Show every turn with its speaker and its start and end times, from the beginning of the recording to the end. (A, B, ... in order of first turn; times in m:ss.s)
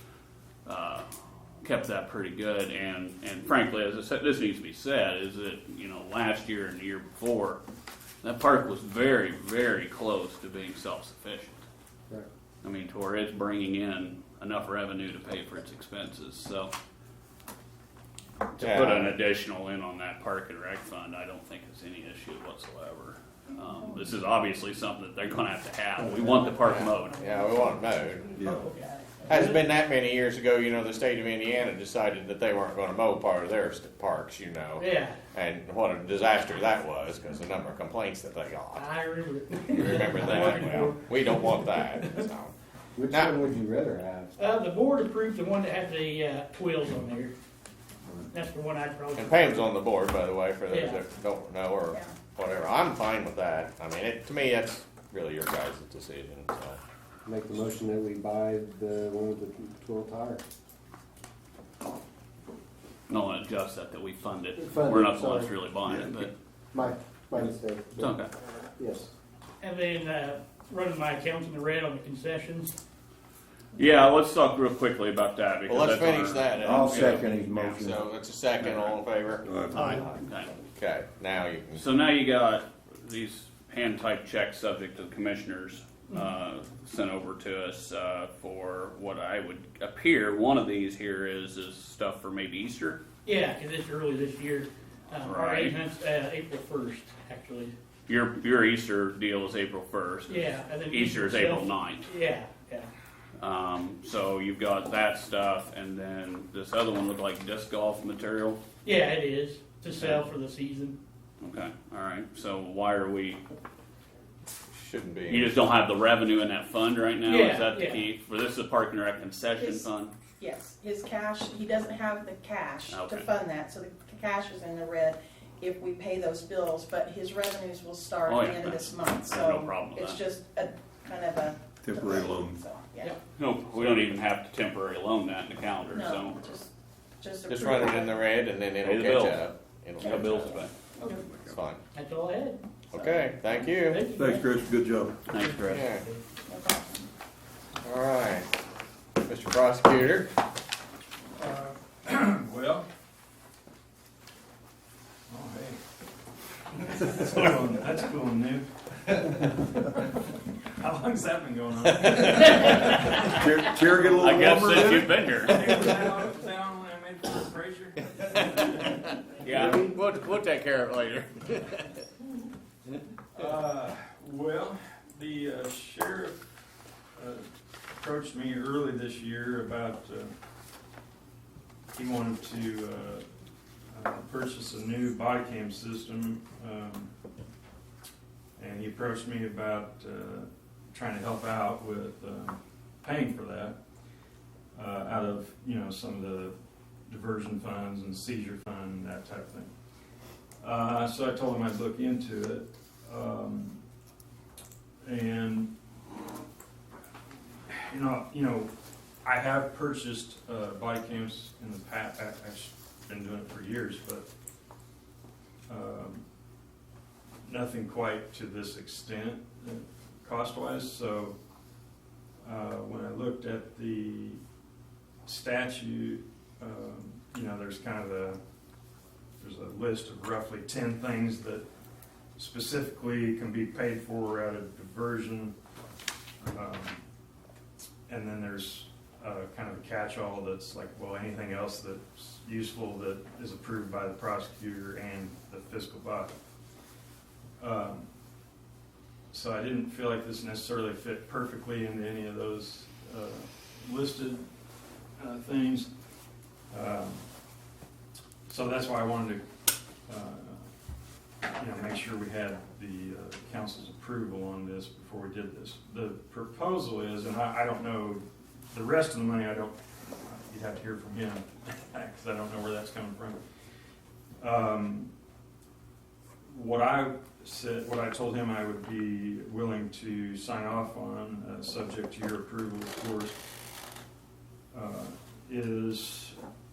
0:00.6-0:01.1 A
0:01.6-0:07.6 A
0:08.2-0:11.6 A
0:12.6-0:16.7 A
0:18.6-0:19.1 B
0:18.6-0:27.2 A
0:26.2-0:29.2 C
0:26.6-0:28.3 B
0:28.6-0:29.6 D
0:29.3-0:38.9 B
0:34.8-0:35.2 D
0:38.7-0:41.6 D
0:39.7-0:42.5 B
0:43.0-0:44.6 E
0:43.1-0:43.4 B
0:44.4-0:47.3 D
0:48.3-0:49.6 D
0:49.2-0:56.8 B
0:50.7-0:51.0 D
0:57.3-1:00.4 E
1:03.1-1:06.3 A
1:04.6-1:05.5 E
1:06.7-1:08.2 E
1:08.0-1:08.3 A
1:08.8-1:09.1 E
1:09.6-1:12.8 D
1:13.8-1:18.0 A
1:15.7-1:20.2 B
1:16.8-1:17.9 F
1:18.6-1:19.0 A
1:19.4-1:20.0 F
1:19.8-1:20.1 D
1:19.8-1:20.6 A
1:20.8-1:21.8 B
1:21.8-1:33.0 A
1:33.3-1:37.7 D
1:35.2-1:35.8 A
1:38.1-1:42.1 A
1:40.3-1:42.9 D
1:43.4-1:48.6 A
1:48.8-1:51.0 D
1:50.0-1:50.3 A
1:51.4-1:53.4 A
1:54.7-1:55.6 B
1:55.3-2:00.1 A
1:57.3-1:58.0 D
1:59.6-1:59.9 C
2:00.4-2:13.1 C
2:02.9-2:03.3 A
2:08.3-2:10.2 A
2:11.8-2:12.6 F
2:13.4-2:16.4 A
2:15.9-2:18.2 C
2:17.5-2:20.6 B
2:18.8-2:19.4 A
2:20.0-2:20.7 A
2:20.0-2:21.2 C
2:21.5-2:21.8 B
2:21.9-2:22.6 D
2:22.9-2:24.1 B
2:22.9-2:23.5 C
2:23.9-2:24.7 D
2:24.1-2:25.2 F
2:25.3-2:25.8 A
2:25.4-2:26.2 D
2:25.7-2:26.1 B
2:26.5-2:27.1 C
2:27.8-2:28.5 B
2:29.2-2:30.3 B
2:31.4-2:32.9 G
2:35.3-2:35.8 G
2:36.7-2:40.1 G
2:40.8-2:43.4 G
2:41.8-2:43.7 B
2:43.4-2:45.3 F
2:44.2-2:45.6 A
2:45.5-2:48.8 G
2:45.5-2:46.2 B
2:48.2-2:52.0 B
2:49.4-2:49.8 A
2:53.4-2:56.4 G
2:57.2-3:00.3 G
3:01.9-3:03.2 G
3:03.9-3:07.1 G
3:08.6-3:13.8 G
3:14.8-3:16.6 G
3:17.1-3:19.7 G
3:20.6-3:23.8 G
3:25.0-3:25.7 G
3:27.7-3:28.7 G
3:29.2-3:34.3 G
3:35.7-3:36.2 G
3:37.5-3:41.4 G
3:42.4-3:44.4 G
3:45.2-3:48.4 G
3:49.4-3:51.7 G
3:52.4-3:55.6 G
3:56.4-3:57.0 G
3:58.1-4:06.4 G
4:07.6-4:08.1 G
4:09.3-4:14.5 G
4:15.2-4:15.9 G
4:16.7-4:17.3 G
4:18.5-4:19.4 G
4:20.1-4:20.6 G
4:21.6-4:33.4 G
4:34.4-4:35.1 G
4:36.5-4:43.4 G
4:44.7-4:46.4 G